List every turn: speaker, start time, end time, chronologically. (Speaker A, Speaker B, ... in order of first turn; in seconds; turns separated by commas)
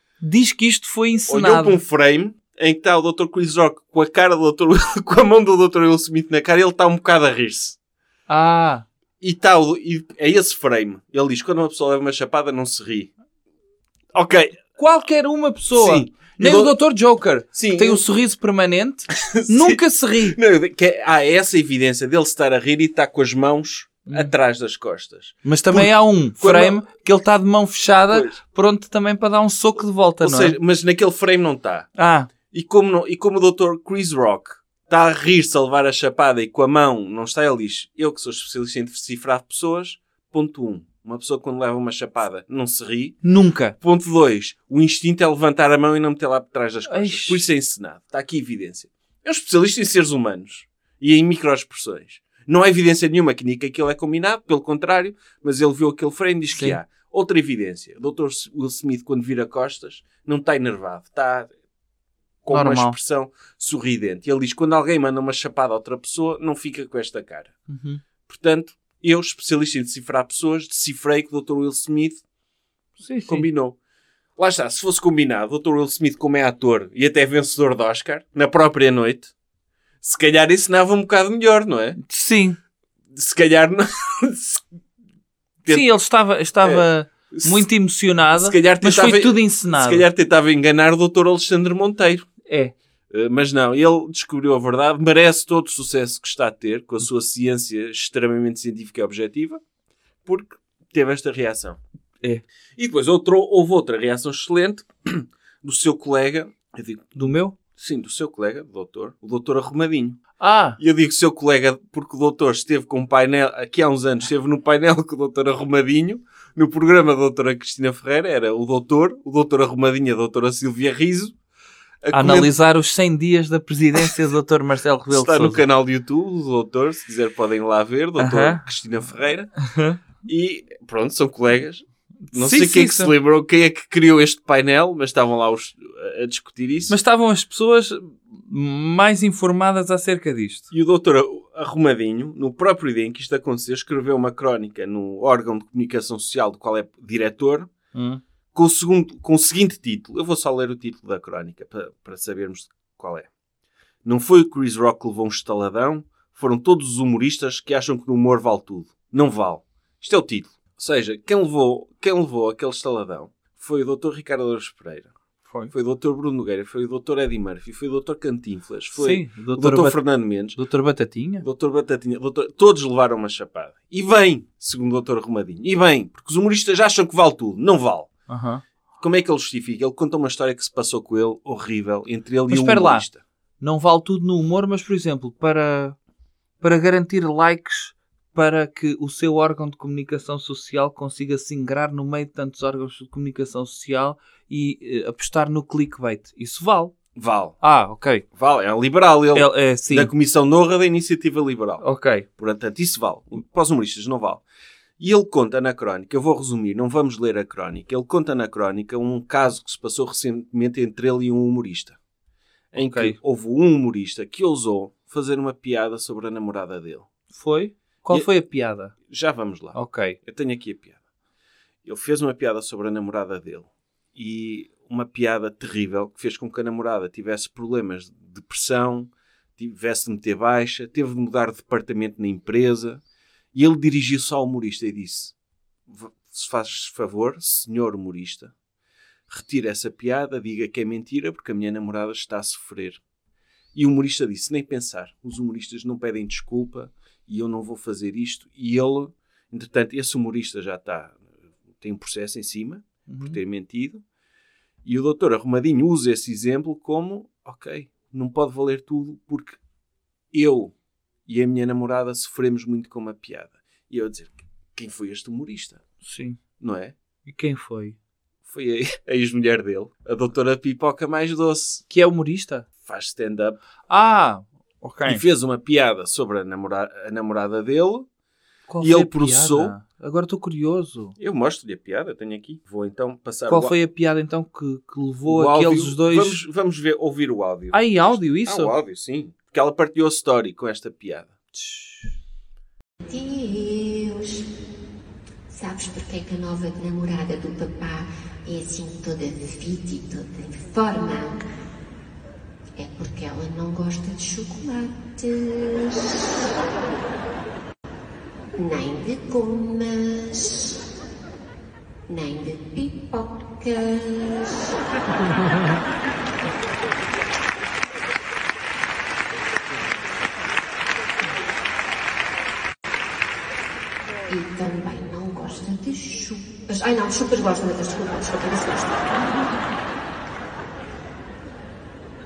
Speaker A: 0.2-1.8, Speaker B: 1.3-7.8, Speaker A: 8.3-8.8, Speaker B: 9.2-13.1, Speaker B: 14.1-14.7, Speaker A: 14.8-20.4, Speaker B: 15.7-16.7, Speaker B: 17.5-18.0, Speaker B: 19.1-26.8, Speaker A: 25.4-30.6, Speaker B: 28.1-28.4, Speaker B: 30.2-31.9, Speaker A: 31.9-32.3, Speaker B: 32.5-43.2, Speaker A: 43.2-43.8, Speaker B: 43.8-61.5, Speaker A: 46.9-47.4, Speaker A: 56.5-56.8, Speaker B: 62.4-67.5, Speaker A: 62.5-63.0, Speaker A: 67.7-68.0, Speaker B: 68.3-72.2, Speaker A: 73.0-73.5, Speaker B: 73.3-73.8, Speaker B: 74.3-79.3, Speaker B: 80.0-82.0, Speaker A: 82.0-82.6, Speaker B: 83.1-84.6, Speaker A: 85.7-90.1, Speaker B: 86.6-87.7, Speaker B: 88.3-92.3, Speaker A: 92.5-92.7, Speaker B: 93.1-99.6, Speaker B: 100.2-101.8, Speaker B: 102.8-107.2, Speaker A: 107.2-107.6, Speaker B: 107.7-110.2, Speaker A: 110.4-110.8, Speaker B: 110.8-121.3, Speaker B: 122.0-122.5, Speaker A: 122.1-125.6, Speaker B: 125.1-129.5, Speaker A: 128.2-128.6, Speaker A: 129.6-130.0, Speaker B: 130.2-136.9, Speaker A: 132.3-133.1, Speaker A: 136.9-140.7, Speaker B: 140.7-147.7, Speaker A: 147.9-148.2, Speaker B: 148.5-153.3, Speaker B: 154.0-165.1, Speaker A: 165.5-165.7, Speaker B: 165.7-170.6, Speaker A: 168.9-170.0, Speaker A: 170.5-171.4, Speaker B: 171.4-178.1, Speaker A: 178.3-178.6, Speaker B: 179.0-183.2, Speaker A: 182.5-183.1, Speaker A: 183.6-186.0, Speaker A: 186.6-196.9, Speaker B: 197.2-197.6, Speaker A: 197.6-198.2, Speaker B: 198.3-201.8, Speaker A: 199.3-200.1, Speaker A: 201.8-202.2, Speaker B: 202.4-204.4, Speaker B: 205.0-212.0, Speaker B: 212.7-217.1, Speaker A: 212.7-213.2, Speaker A: 217.3-218.9, Speaker B: 219.0-221.0, Speaker A: 219.7-220.2, Speaker B: 221.8-233.0, Speaker B: 233.5-235.3, Speaker B: 235.9-238.5, Speaker B: 239.3-243.0, Speaker B: 243.7-251.2, Speaker B: 251.8-254.0, Speaker A: 253.1-253.4, Speaker B: 254.8-259.6, Speaker B: 260.3-260.7, Speaker B: 261.2-265.8, Speaker A: 266.0-266.4, Speaker B: 266.6-266.9, Speaker A: 267.2-268.0, Speaker B: 268.4-271.8, Speaker A: 271.9-272.7, Speaker B: 272.8-273.6, Speaker A: 273.9-275.2, Speaker B: 275.0-278.1, Speaker A: 278.7-281.1, Speaker B: 278.8-279.7, Speaker B: 281.2-283.7, Speaker A: 283.5-286.4, Speaker B: 285.3-291.3, Speaker A: 287.7-288.7, Speaker A: 291.5-292.1, Speaker C: 293.0-294.5, Speaker C: 295.5-301.4, Speaker C: 302.8-306.5, Speaker C: 308.6-310.8, Speaker C: 312.1-314.8, Speaker C: 324.3-329.4